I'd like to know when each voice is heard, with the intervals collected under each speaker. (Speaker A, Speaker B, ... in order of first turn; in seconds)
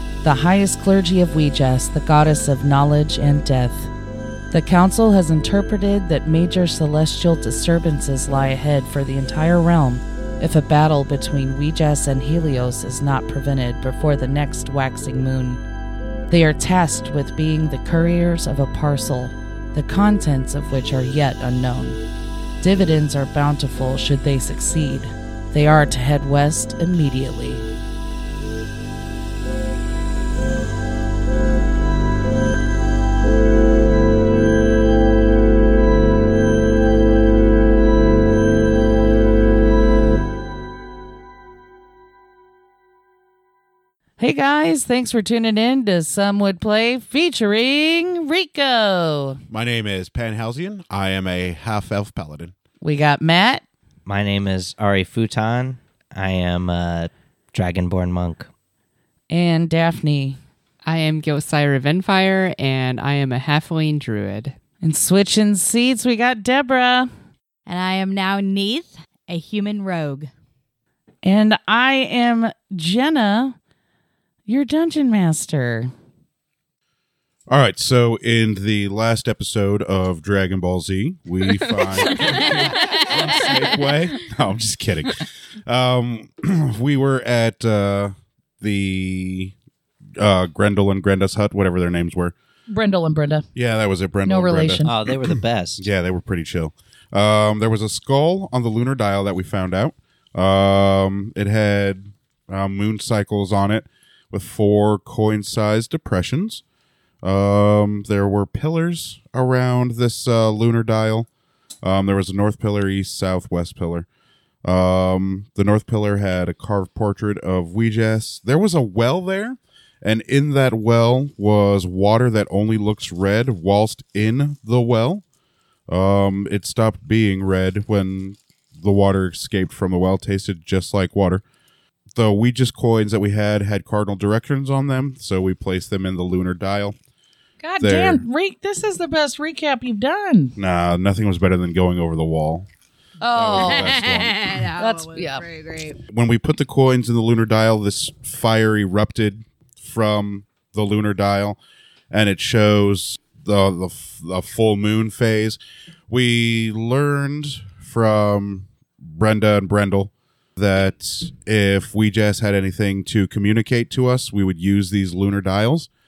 Speaker A: 0.2-3.9, 4.5-15.6, 16.3-22.0, 22.6-27.7, 44.2-49.4, 52.8-53.6, 59.3-60.4, 64.8-67.1, 71.2-73.6, 74.5-75.9, 92.7-93.5, 94.2-94.9, 137.6-140.6, 143.2-144.0, 144.8-145.4
Speaker B: 49.5-52.5, 77.5-89.5, 90.2-92.3, 93.5-106.6, 107.2-111.3, 111.8-114.0, 114.6-125.2, 125.9-131.4, 132.1-136.9, 137.8-138.2, 140.6-142.7, 143.3-144.6, 146.1-151.6, 152.1-155.6, 156.1-165.9
Speaker C: 54.0-58.5, 94.8-95.8
Speaker D: 60.8-64.6, 82.1-82.4
Speaker E: 67.7-70.3, 82.1-83.8, 143.5-146.0